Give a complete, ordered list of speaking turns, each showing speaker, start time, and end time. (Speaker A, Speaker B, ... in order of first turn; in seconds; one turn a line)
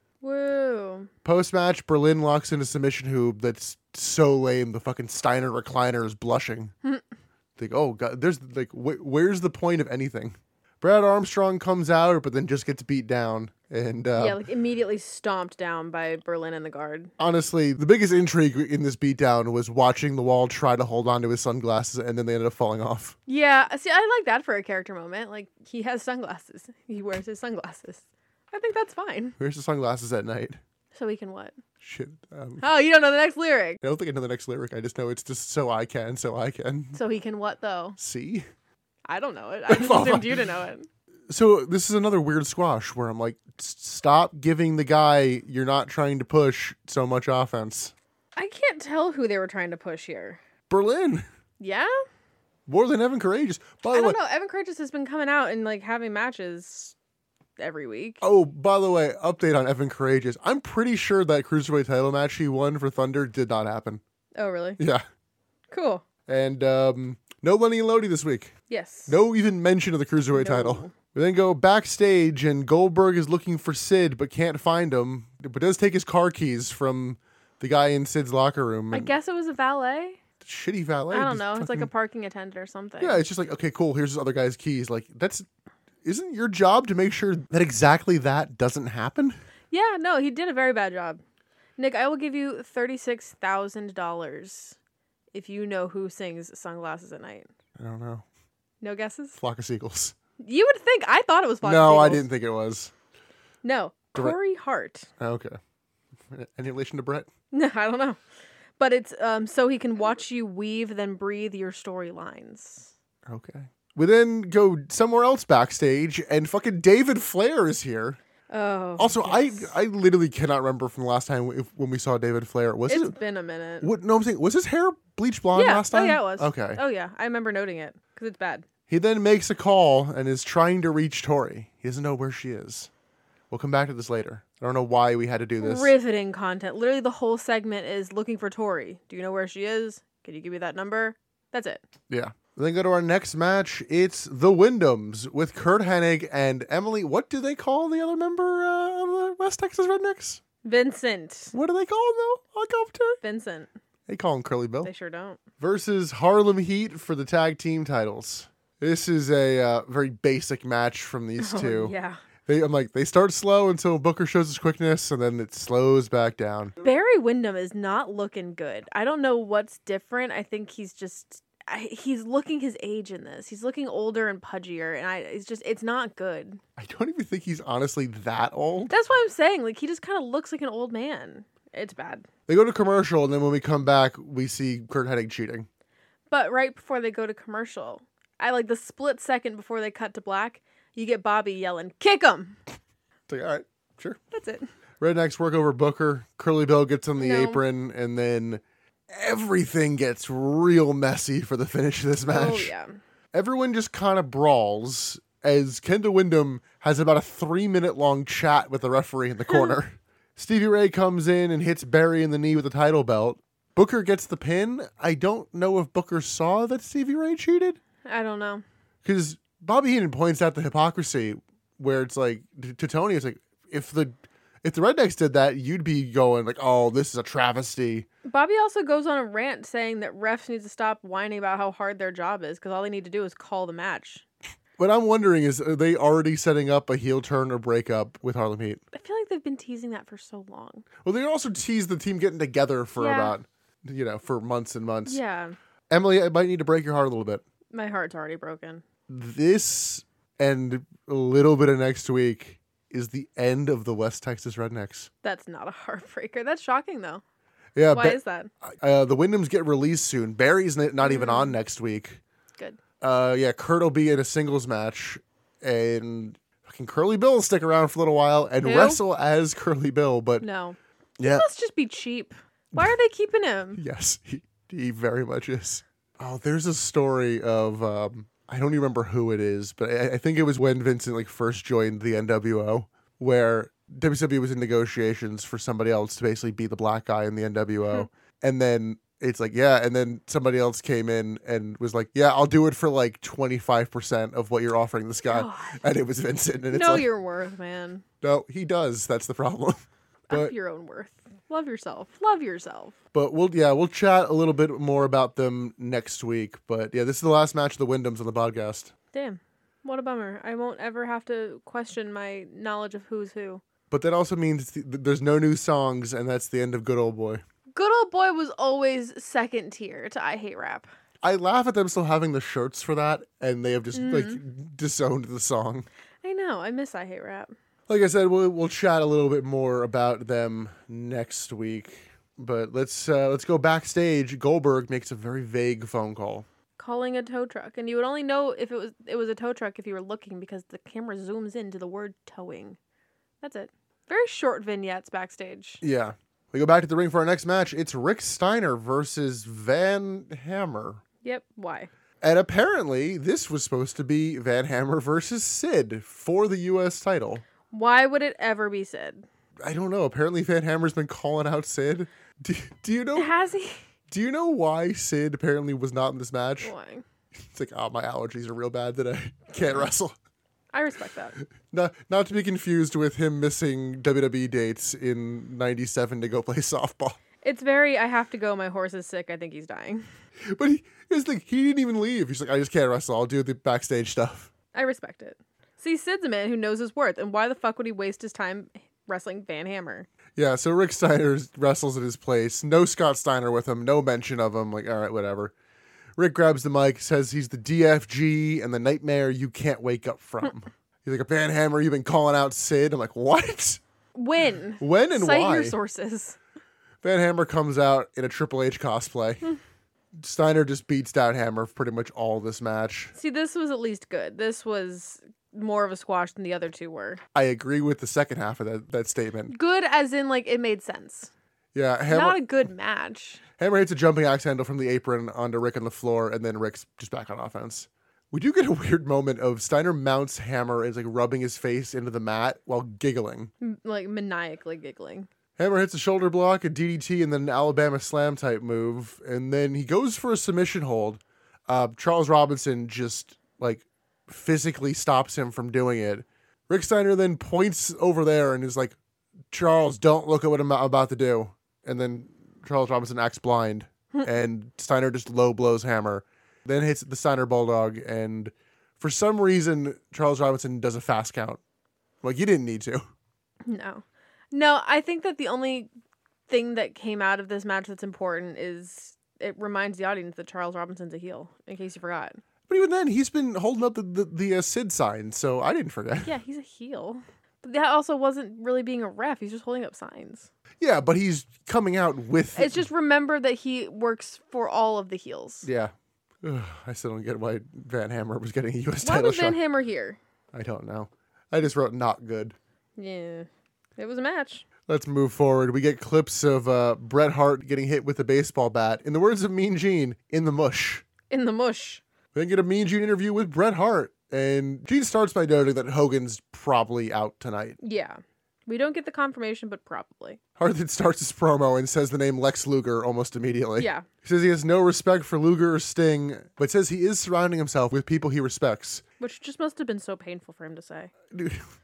Speaker A: 0.2-1.1
Speaker B: 1.2-6.7
Speaker B: 7.6-14.4
Speaker A: 14.2-17.1
Speaker B: 17.2-23.1
Speaker A: 23.3-29.4
Speaker B: 29.4-30.6
Speaker A: 30.9-31.6
Speaker B: 31.8-32.6
Speaker A: 32.6-33.8
Speaker B: 33.8-37.0
Speaker A: 36.9-38.0
Speaker B: 38.0-38.5
Speaker A: 39.1-40.9
Speaker B: 39.7-40.4
Speaker B: 41.3-47.9
Speaker A: 48.4-50.4
Speaker B: 50.7-51.2
Speaker A: 51.6-51.9
Speaker B: 52.7-54.2
Speaker A: 53.9-57.0
Speaker A: 57.6-58.2
Speaker B: 58.2-64.0
Speaker A: 64.4-64.8
Speaker B: 64.8-65.0
Speaker A: 65.7-66.0
Speaker B: 66.3-68.5
Speaker A: 68.7-69.2
Speaker B: 69.1-79.1
Speaker A: 70.3-70.9
Speaker A: 78.9-80.2
Speaker B: 80.4-81.9
Speaker A: 81.1-83.2
Speaker B: 83.0-85.5
Speaker B: 86.0-89.4
Speaker A: 89.7-91.2
Speaker A: 91.8-94.8
Speaker A: 95.3-97.5
Speaker B: 97.8-98.2
Speaker A: 98.8-99.4
Speaker B: 99.4-100.1
Speaker A: 100.4-102.3
Speaker B: 101.6-102.9
Speaker A: 103.6-105.1
Speaker B: 105.2-105.6
Speaker B: 106.3-107.3
Speaker A: 107.5-108.2
Speaker A: 108.8-112.9
Speaker B: 113.3-118.2
Speaker A: 118.5-119.8
Speaker B: 119.0-123.1
Speaker A: 122.9-123.9
Speaker B: 123.8-126.8
Speaker A: 125.5-128.6
Speaker B: 128.9-132.9
Speaker B: 133.5-135.9
Speaker A: 135.6-141.8
Speaker B: 142.1-150.4
Speaker A: 150.6-151.5
Speaker B: 151.5-153.2
Speaker A: 153.2-153.7
Speaker B: 154.1-154.9
Speaker A: 154.8-155.4
Speaker B: 155.6-161.9
Speaker A: 161.4-162.2
Speaker B: 162.5-166.8
Speaker A: 166.8-176.6
Speaker B: 176.8-178.9
Speaker A: 178.9-182.3
Speaker B: 182.5-185.7
Speaker A: 186.3-192.6
Speaker B: 193.3-194.2
Speaker A: 194.3-194.7
Speaker B: 195.0-202.7
Speaker A: 197.2-197.6
Speaker A: 202.3-203.0
Speaker B: 203.3-217.8
Speaker A: 209.5-209.8
Speaker A: 218.1-218.6
Speaker B: 219.0-228.1
Speaker A: 228.2-234.2
Speaker B: 234.8-238.8
Speaker A: 238.9-240.9
Speaker B: 241.0-245.2
Speaker A: 243.0-243.3
Speaker A: 245.1-245.6
Speaker B: 245.9-247.4
Speaker A: 247.7-248.8
Speaker B: 249.1-255.1
Speaker A: 255.2-257.2
Speaker B: 257.8-262.2
Speaker A: 257.9-258.5
Speaker A: 261.0-261.6
Speaker B: 263.0-270.4
Speaker A: 268.6-269.0
Speaker A: 270.4-273.8
Speaker B: 271.2-271.5
Speaker B: 273.8-297.1
Speaker A: 295.2-295.8
Speaker A: 296.7-298.0
Speaker B: 298.2-300.5
Speaker A: 300.3-302.9
Speaker B: 303.1-308.9
Speaker A: 309.1-313.6
Speaker B: 313.9-317.4
Speaker A: 317.8-320.9
Speaker B: 321.2-325.9
Speaker A: 323.9-324.4
Speaker A: 326.2-327.5
Speaker B: 327.9-336.5
Speaker A: 336.8-342.8
Speaker A: 343.4-345.8
Speaker B: 345.8-351.0
Speaker A: 351.2-351.9
Speaker B: 352.2-357.4
Speaker A: 357.7-359.2
Speaker B: 359.6-363.3
Speaker A: 363.1-363.8
Speaker B: 364.1-366.7
Speaker A: 366.6-367.0
Speaker B: 367.4-370.1
Speaker A: 370.7-371.4
Speaker B: 371.6-377.2
Speaker A: 377.4-380.0
Speaker B: 380.5-384.5
Speaker A: 384.7-390.1
Speaker B: 390.4-395.5
Speaker B: 396.2-403.8
Speaker A: 404.1-406.4
Speaker B: 404.8-405.8
Speaker B: 407.0-409.5
Speaker B: 410.2-413.1
Speaker A: 413.1-417.2
Speaker B: 417.4-419.5
Speaker A: 419.5-421.3
Speaker B: 421.8-422.4
Speaker A: 422.1-423.4
Speaker B: 423.6-433.5
Speaker A: 433.6-435.3
Speaker B: 435.6-449.0
Speaker B: 449.5-461.6
Speaker B: 462.2-463.0
Speaker A: 463.6-465.9
Speaker A: 466.5-472.4
Speaker B: 472.7-476.3
Speaker A: 476.2-480.5
Speaker B: 480.8-482.8
Speaker A: 482.5-485.7
Speaker B: 485.6-489.6
Speaker A: 489.0-490.2
Speaker B: 490.5-492.6
Speaker A: 493.0-494.6
Speaker B: 494.9-501.0
Speaker A: 501.3-502.0
Speaker B: 502.3-507.8
Speaker A: 507.8-510.4
Speaker B: 510.6-519.0
Speaker A: 513.8-514.1
Speaker A: 519.2-521.1
Speaker B: 521.3-521.7